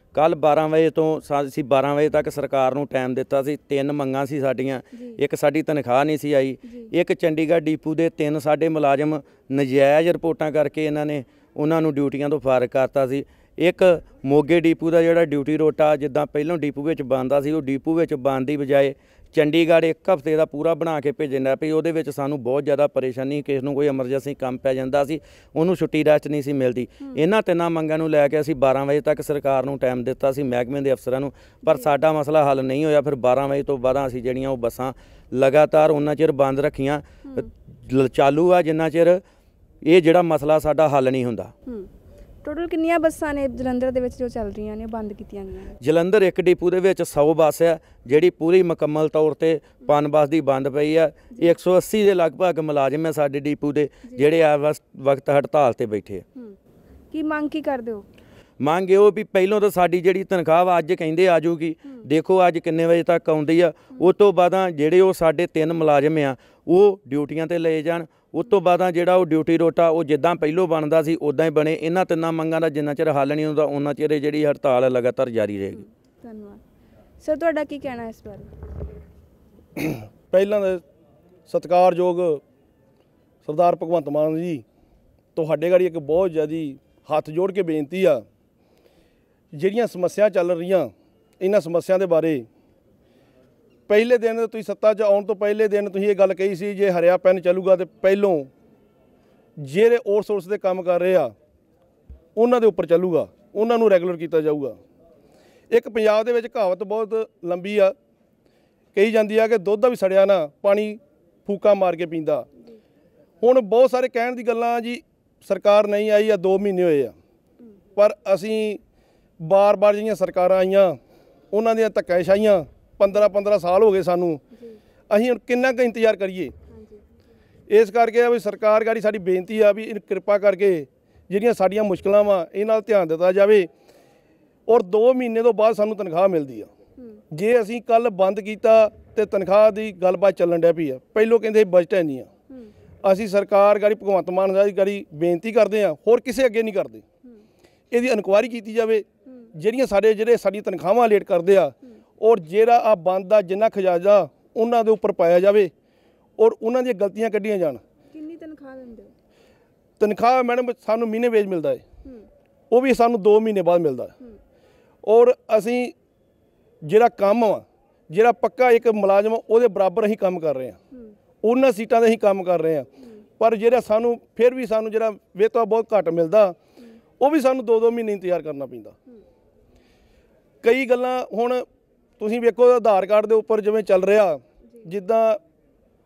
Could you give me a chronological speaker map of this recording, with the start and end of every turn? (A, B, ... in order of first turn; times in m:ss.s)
0:00.1-0:39.2 A
0:04.9-0:05.2 B
0:06.6-0:06.9 B
0:31.7-0:31.9 B
0:39.9-0:41.5 A
0:42.4-0:45.8 B
0:45.8-0:56.2 A
0:57.1-0:58.0 B
0:58.6-1:15.8 A
1:15.7-1:16.6 B
1:17.2-1:18.5 B
1:19.8-1:20.8 C
1:21.5-1:22.4 C
1:23.4-1:24.6 C
1:25.4-1:28.2 C
1:29.5-1:32.5 C
1:33.9-1:38.5 C
1:39.6-1:41.3 C
1:42.4-1:44.8 C
1:45.7-1:48.0 C
1:48.9-1:52.5 C
1:53.4-1:57.2 C
1:58.0-1:58.8 C
1:59.4-2:01.0 C
2:01.5-2:04.4 C
2:05.1-2:06.5 C
2:06.7-2:07.0 B
2:07.7-2:13.7 C
2:14.7-2:16.7 C
2:17.3-2:22.3 C
2:23.0-2:27.0 C
2:27.9-2:35.7 C
2:36.4-2:37.8 C
2:38.1-2:39.1 B
2:40.0-2:41.8 C
2:42.7-2:44.1 C
2:45.0-2:45.9 C
2:46.8-2:50.8 C
2:51.4-2:56.6 C
2:57.2-2:59.0 C
3:00.6-3:01.7 C
3:02.2-3:05.4 C